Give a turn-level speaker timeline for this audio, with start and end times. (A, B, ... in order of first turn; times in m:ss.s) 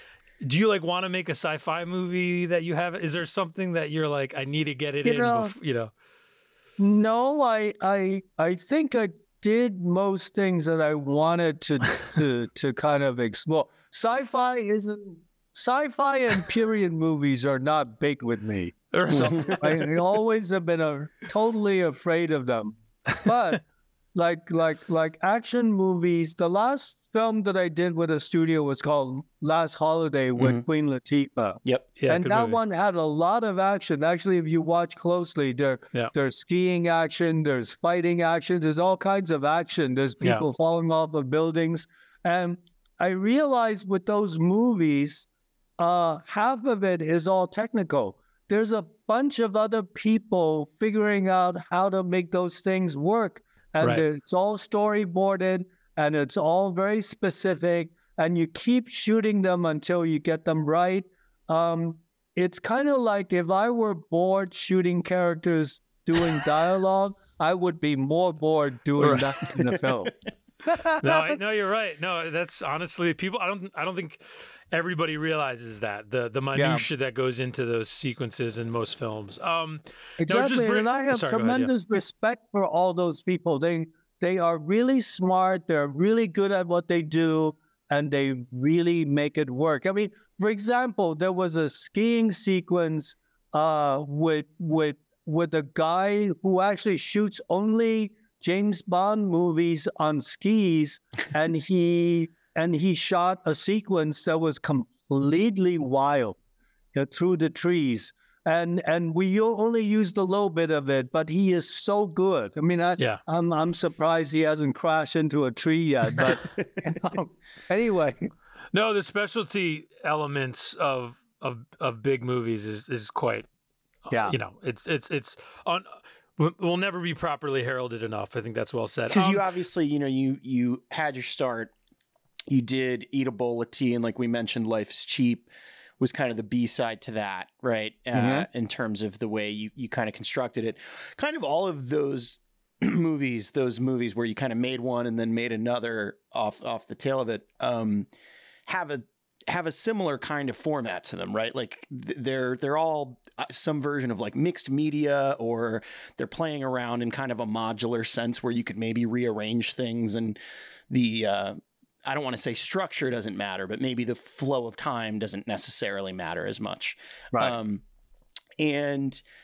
0:00.4-0:05.9 A
0:05.0-0:05.5 B
0:06.8-0:45.2 B
0:18.9-0:20.0 A
0:30.4-0:30.6 C
0:32.0-0:32.6 A
0:45.8-1:10.1 B
0:53.8-0:54.0 A
1:09.0-1:09.4 A
1:10.6-1:11.4 B
1:11.0-1:21.7 A
1:16.6-1:16.9 B
1:20.2-1:46.4 B
1:46.9-1:58.3 B
1:58.7-2:03.5 A
2:04.1-2:09.5 A
2:09.1-2:11.7 C
2:12.5-2:15.5 C
2:16.0-2:28.1 C
2:18.1-2:18.5 B
2:28.7-2:40.4 C
2:40.9-2:47.8 C
2:48.6-2:49.2 C